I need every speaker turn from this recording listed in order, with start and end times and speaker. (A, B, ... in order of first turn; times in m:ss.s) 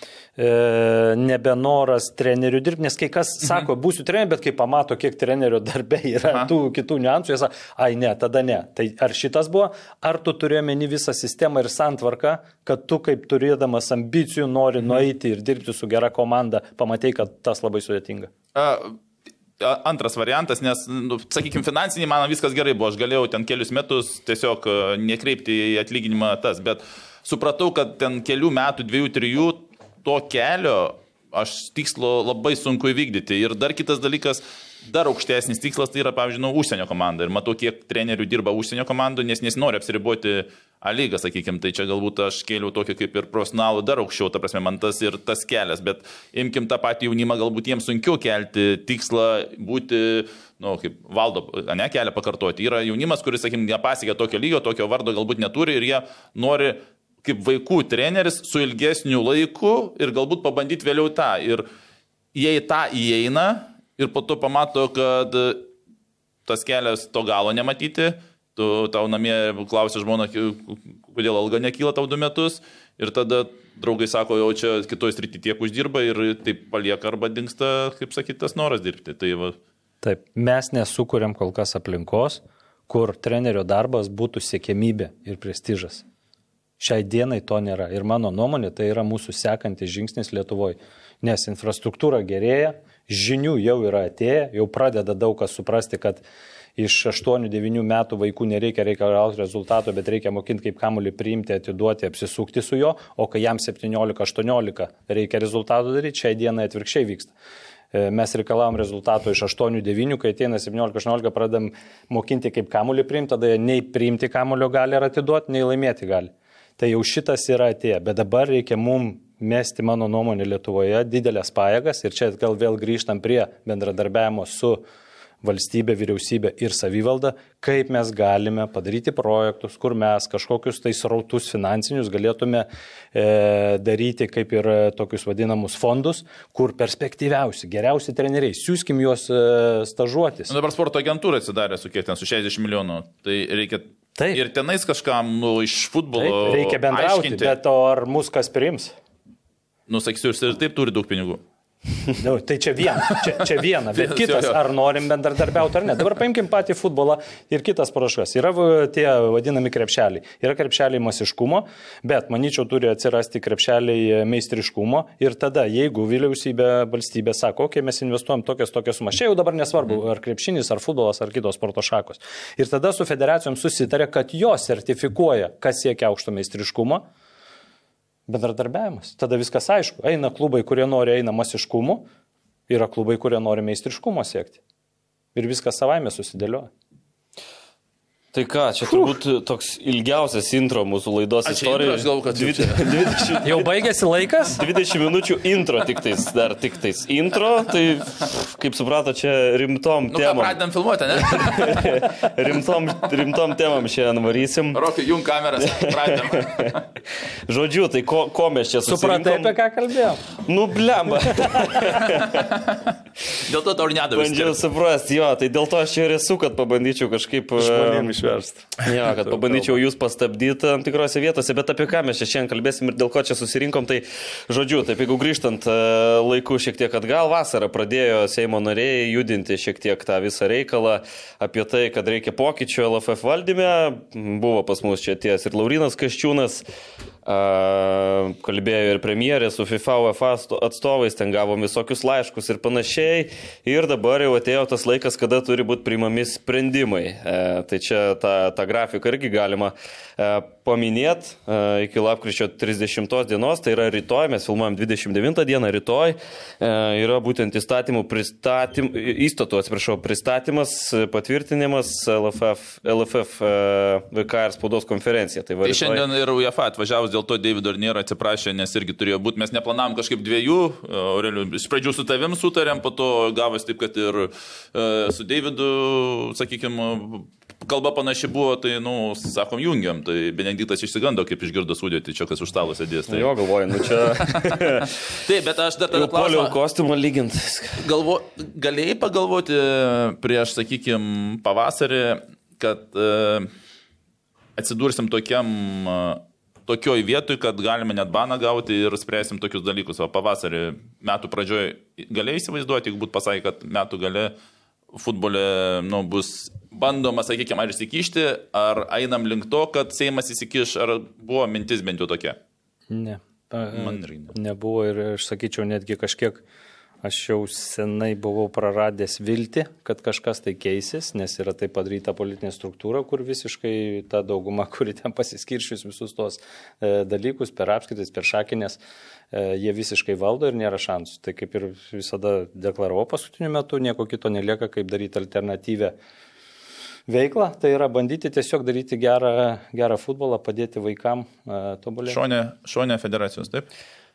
0:00.4-0:18.3 A
0:18.5-0:19.0 B
0:19.6-1:01.7 B
1:02.3-1:05.7 B
1:06.5-1:19.6 B
1:20.0-1:26.0 A
1:26.8-1:36.2 A
1:36.8-1:47.3 A
1:47.9-2:04.8 A
2:05.4-2:20.5 A
2:20.5-2:27.6 B
2:26.2-2:28.9 A
2:29.9-2:31.4 B
2:32.1-2:57.1 A
2:33.9-2:34.6 B
2:58.3-3:02.1 A
3:02.7-3:04.6 A
3:05.4-3:06.7 A
3:08.3-3:13.7 C
3:08.9-3:09.1 A
3:11.4-3:13.4 B
3:13.4-3:14.6 A
3:14.5-3:20.6 C
3:20.1-3:22.1 B
3:21.2-3:24.8 C
3:24.7-3:26.8 B
3:25.6-3:26.8 C
3:27.5-3:29.6 C
3:28.9-3:30.2 A
3:30.3-3:32.5 C
3:31.5-3:32.0 A
3:32.3-3:34.6 B
3:34.1-3:38.2 C
3:37.6-3:39.7 A
3:38.8-3:56.6 C
3:57.2-4:26.1 C
4:25.6-4:43.3 B
4:43.1-4:44.9 C
4:43.9-4:46.6 B
4:45.9-4:47.8 C
4:47.8-4:53.5 B
4:54.6-5:04.4 B
5:04.9-5:12.4 B
5:12.9-5:16.4 A
5:13.7-5:14.3 B
5:17.0-5:28.8 A
5:29.3-5:35.9 A
5:37.1-5:42.2 A
5:42.1-5:43.7 B